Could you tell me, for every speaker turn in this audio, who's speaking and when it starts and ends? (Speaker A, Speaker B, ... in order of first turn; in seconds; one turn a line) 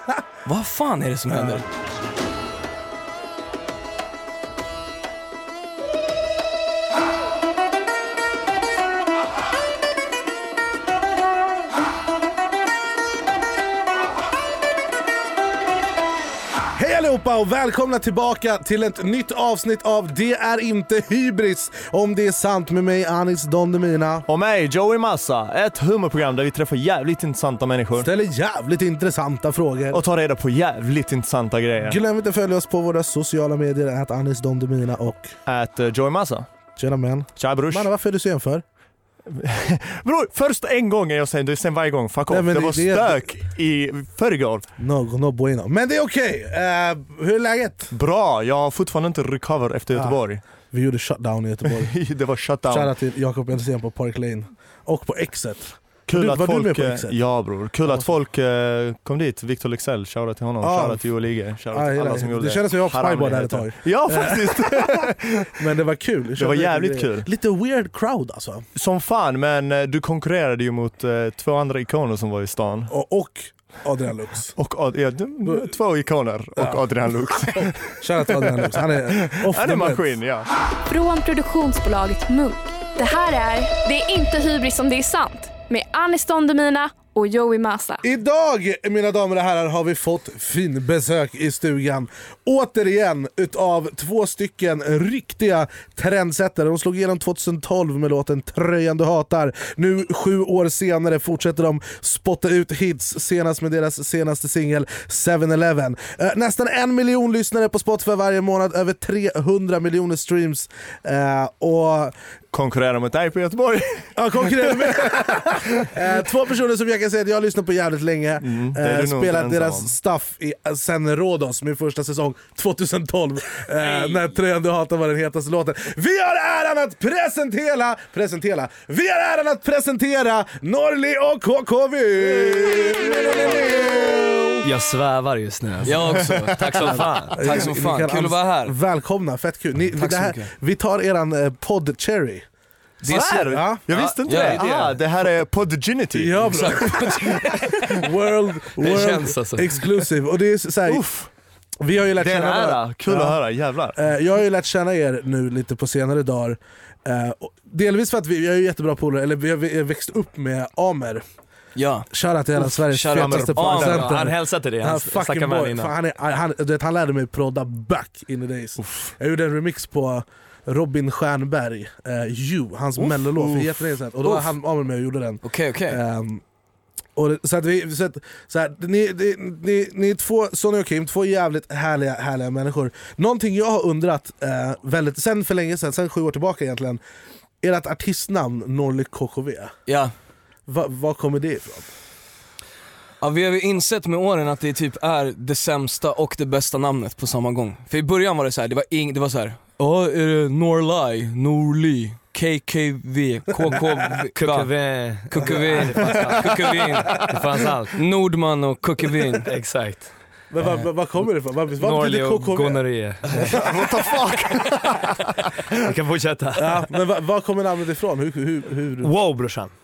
Speaker A: 0.4-1.6
Speaker B: 1.3-1.6
Speaker B: 16.7-24.2
Speaker C: 24.2-28.1
Speaker B: 28.0-30.0
Speaker C: 29.9-32.0
Speaker B: 31.9-35.4
Speaker C: 35.5-36.5
Speaker B: 36.8-38.6
Speaker C: 37.4-37.9
Speaker C: 39.2-44.7
Speaker B: 42.3-43.4
Speaker B: 44.8-47.9
Speaker C: 47.9-50.4
Speaker B: 50.7-52.0
Speaker C: 51.6-52.9
Speaker B: 52.7-57.2
Speaker C: 56.1-65.7
Speaker B: 57.9-58.1
Speaker B: 60.6-61.0
Speaker B: 61.7-68.6
Speaker C: 66.3-67.3
Speaker C: 68.7-72.9
Speaker B: 72.9-74.5
Speaker C: 74.5-80.5
Speaker B: 75.4-75.7
Speaker B: 77.5-80.0
Speaker D: 80.9-88.0
Speaker B: 88.0-112.1
Speaker C: 112.5-115.8
Speaker B: 114.2-134.6
Speaker C: 118.4-119.9
Speaker A: 123.8-124.2
Speaker C: 132.3-134.2
Speaker E: 134.6-137.4
Speaker A: 135.8-138.8
Speaker B: 137.4-142.4
Speaker A: 139.9-140.5
Speaker A: 143.0-143.6
Speaker C: 143.0-147.8
Speaker B: 143.3-143.8
Speaker E: 143.9-144.9
Speaker A: 144.2-144.6
Speaker B: 146.1-151.0
Speaker A: 146.5-147.7
Speaker E: 148.8-149.8
Speaker C: 150.9-151.3
Speaker B: 151.8-153.4
Speaker C: 152.2-154.0
Speaker B: 153.9-161.2
Speaker A: 161.8-164.1
Speaker B: 162.1-176.4
Speaker E: 163.2-165.9
Speaker C: 168.8-169.1
Speaker C: 173.0-173.9
Speaker A: 175.4-176.0
Speaker B: 177.2-187.0
Speaker B: 187.6-189.7
Speaker A: 189.9-190.1
Speaker B: 190.7-191.9
Speaker A: 193.2-207.3
Speaker E: 204.3-208.0
Speaker A: 207.9-209.5
Speaker E: 209.4-210.1
Speaker B: 210.5-214.1
Speaker A: 210.6-210.9
Speaker E: 211.8-213.6
Speaker C: 213.4-215.7
Speaker E: 215.8-216.8
Speaker B: 216.6-219.1
Speaker E: 219.0-219.7